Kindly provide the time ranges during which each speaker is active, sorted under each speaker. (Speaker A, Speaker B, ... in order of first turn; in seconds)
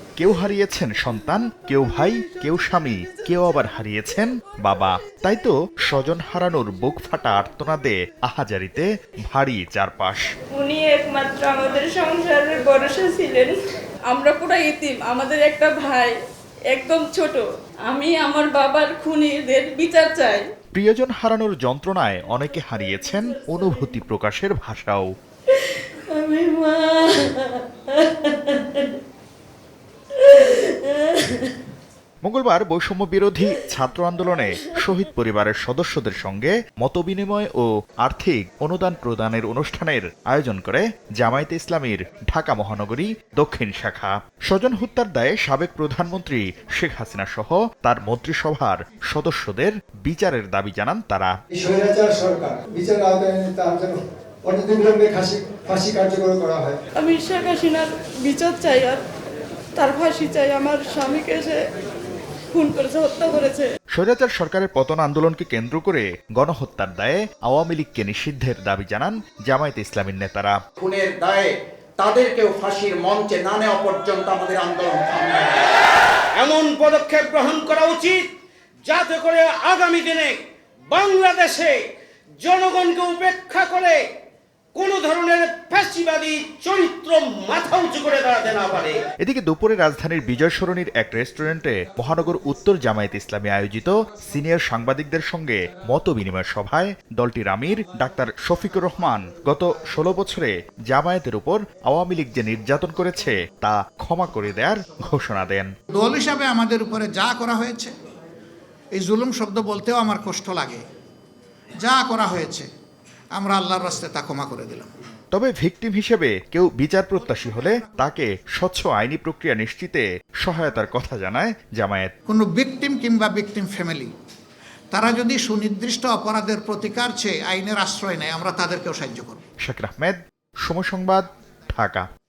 Speaker A: 0.2-10.3, 20.7-25.1, 32.2-51.3, 63.9-70.6, 89.2-105.7, 115.3-122.1, 129.6-132.1
Speaker B: 1.9-3.3, 10.5-13.6, 14.1-16.2, 16.7-20.5, 25.5-28.9, 30.2-31.5, 57.0-59.0, 59.8-61.6, 62.5-63.7
Speaker C: 51.5-56.8
Speaker D: 70.8-75.7
Speaker E: 76.4-78.3, 78.9-81.8, 82.4-84.0, 84.8-89.0
Speaker F: 105.9-107.9, 109.0-110.8, 111.8-112.7, 113.3-114.9, 117.1-118.1, 122.3-124.1, 124.9-129.4